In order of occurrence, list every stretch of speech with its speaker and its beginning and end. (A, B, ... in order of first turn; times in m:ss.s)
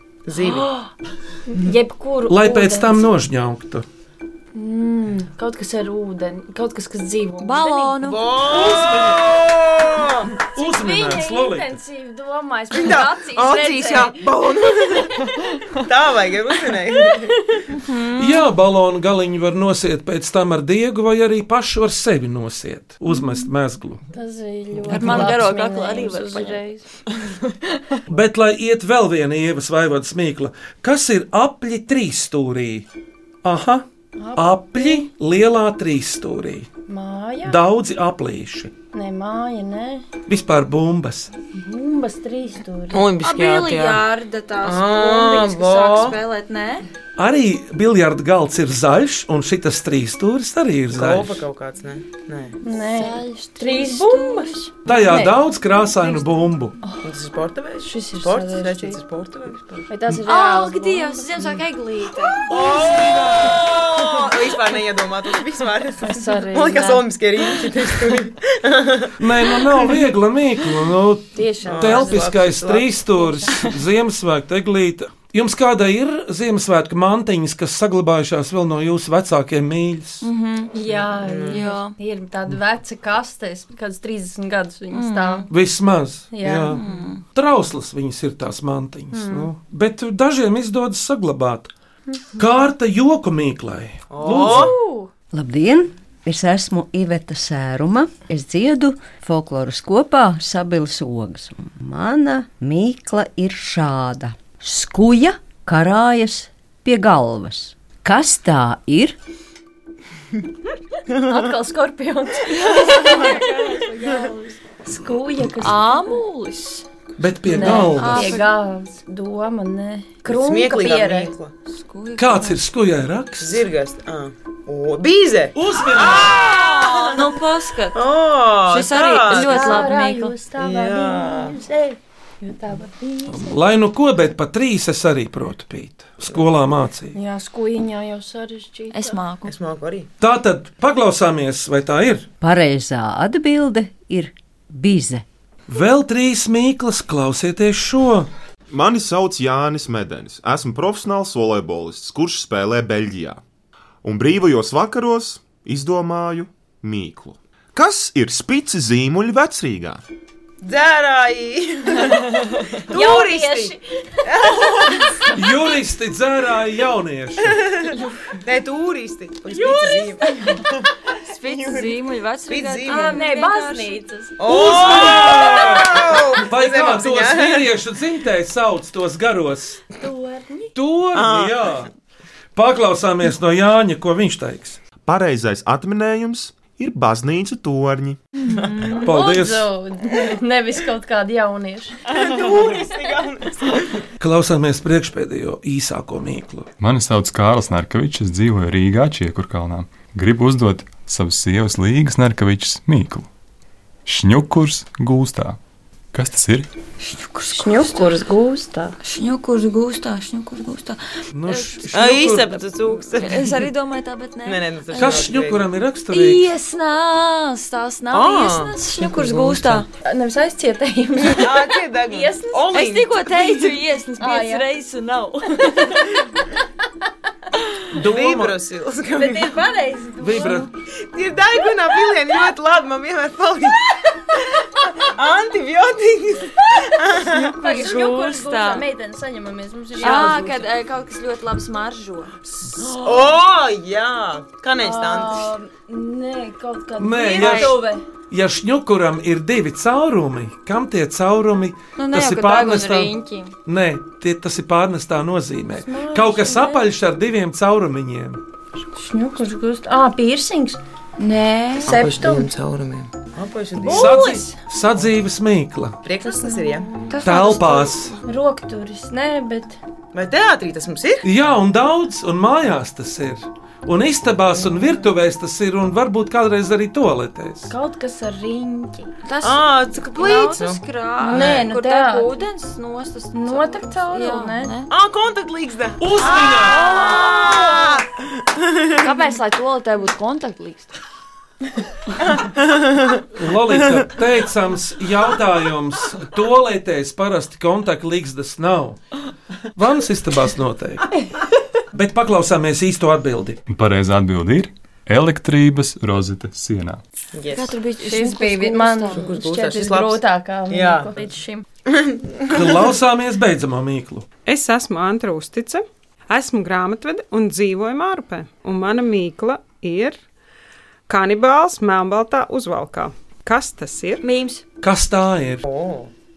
0:00.3-0:00.7 A
0:01.5-0:03.1 B
0:02.3-0:03.8 C
0:04.6-0:08.0 B
0:07.4-0:08.3 D
0:08.0-0:10.3 A
0:08.5-0:09.4 C
0:10.4-0:11.8 C
0:10.6-0:14.2 B
0:12.7-0:17.6 A
0:17.8-0:18.5 D
0:18.2-0:24.0 C
0:24.1-0:26.8 B
0:24.9-0:25.2 A
0:24.9-0:26.7 D
0:28.1-0:32.9 C
0:33.4-0:36.7 C
0:34.2-0:35.1 B
0:36.9-0:37.6 B
0:37.5-0:38.7 C
0:38.9-0:40.0 B
0:40.3-0:41.3 C
0:41.5-0:43.0 B
0:42.9-0:44.0 A
0:43.2-0:46.8 D
0:44.6-0:46.2 A
0:47.2-0:51.4 C
0:50.9-0:52.6 A
0:52.6-0:55.4 B
0:52.7-0:54.6 D
0:54.9-0:56.8 C
0:57.0-0:59.9 A
0:57.8-0:59.0 B
0:59.9-1:01.6 B
1:00.2-1:02.5 D
1:02.5-1:09.1 A
1:02.5-1:03.6 C
1:06.0-1:07.1 B
1:09.2-1:20.3 C
1:11.4-1:12.3 B
1:11.6-1:12.9 A
1:13.2-1:13.5 B
1:20.2-1:20.7 D
1:20.7-1:25.5 B
1:20.9-1:21.6 A
1:21.5-1:21.9 D
1:24.9-1:25.5 D
1:25.5-1:31.7 C
1:26.3-1:26.8 B
1:26.7-1:27.2 D
1:29.1-1:29.5 B
1:32.4-1:34.8 C
1:34.1-1:34.8 A
1:34.4-1:35.1 B
1:35.3-1:49.2 E
1:51.2-1:53.5 B
1:52.6-1:54.5 D
1:53.0-1:53.4 A
1:54.8-1:56.2 B
1:55.6-1:56.8 D
1:57.2-1:58.4 C
1:57.5-2:01.3 B
1:57.6-1:58.5 D
2:00.2-2:01.5 A
2:01.7-2:02.6 D
2:02.2-2:03.7 C
2:03.4-2:07.2 A
2:05.6-2:06.5 C
2:06.2-2:08.0 D
2:07.9-2:09.9 A
2:08.7-2:10.4 D
2:09.3-2:13.6 B
2:10.6-2:11.6 A
2:13.3-2:17.2 C
2:17.1-2:19.2 B
2:18.9-2:19.5 D
2:19.4-2:20.1 A
2:20.2-2:22.3 C
2:22.4-2:25.2 E
2:25.7-2:28.3 C
2:28.7-2:33.4 F
2:34.0-2:40.0 F
2:40.6-2:45.3 A
2:42.9-2:44.3 B
2:45.3-2:47.6 C
2:48.4-2:50.9 A
2:51.2-2:54.0 D
2:51.4-2:51.9 A
2:52.5-2:53.2 A
2:52.9-2:55.4 B
2:54.4-2:57.7 A
2:54.4-2:59.8 C
3:00.0-3:00.7 B
3:00.8-3:01.9 C
3:01.1-3:01.9 A
3:02.6-3:04.8 C
3:05.0-3:08.2 F
3:08.5-3:09.0 A
3:08.5-3:12.2 B
3:09.0-3:09.7 C
3:12.1-3:14.1 A
3:14.2-3:16.7 C
3:16.8-3:23.3 G
3:24.1-3:25.6 G
3:26.1-3:26.7 G
3:27.0-3:28.1 D
3:27.5-3:29.0 B
3:29.0-3:31.9 D
3:31.3-3:32.6 C
3:31.9-3:33.6 A
3:33.1-3:35.3 D
3:34.4-3:35.7 A
3:34.9-3:36.5 C
3:36.1-3:39.9 D
3:38.1-3:39.8 A
3:40.0-3:42.7 B
3:41.2-3:43.7 A
3:42.7-3:46.1 D
3:44.2-3:44.6 B
3:45.7-3:46.1 B
3:47.9-3:48.6 C
3:48.0-3:49.6 A
3:49.1-3:50.7 B
3:50.2-3:50.7 C
3:51.1-3:57.6 A
3:57.3-4:00.7 B
3:57.3-3:58.8 D
4:00.0-4:00.4 A
4:00.0-4:02.4 D
4:02.6-4:05.5 A
4:02.8-4:03.3 B
4:04.8-4:08.0 B
4:07.0-4:07.8 C
4:07.4-4:07.8 D
4:08.3-4:13.1 C
4:12.0-4:13.5 D
4:13.6-4:18.4 C
4:15.8-4:16.9 B
4:19.0-4:20.8 B
4:21.2-4:22.0 D
4:21.8-4:22.5 B
4:21.8-4:24.2 A
4:23.8-4:24.6 B
4:23.9-4:26.0 C
4:26.0-4:26.9 A
4:26.2-4:27.0 B
4:27.1-4:27.9 D
4:27.2-4:28.2 C
4:28.3-4:29.8 B
4:30.1-4:31.2 A
4:31.2-4:37.7 C
4:37.7-4:39.1 B
4:39.2-4:44.9 D
4:39.4-4:41.6 A
4:41.2-4:42.3 B
4:43.4-4:44.7 B
4:44.9-4:49.1 A
4:46.0-4:47.0 C
4:46.4-4:48.0 D
4:48.9-4:51.0 D
4:52.2-4:53.2 A
4:53.4-4:59.0 C
4:59.8-5:01.1 C
5:01.9-5:03.6 C
5:03.7-5:07.0 G
5:07.4-5:07.8 A
5:07.5-5:09.3 D
5:08.0-5:11.6 B
5:09.1-5:11.1 A
5:11.9-5:12.8 A
5:12.5-5:14.3 C
5:14.5-5:20.2 H
5:21.1-5:24.2 H
5:24.2-5:24.6 D
5:24.8-5:25.6 C
5:25.6-5:26.1 A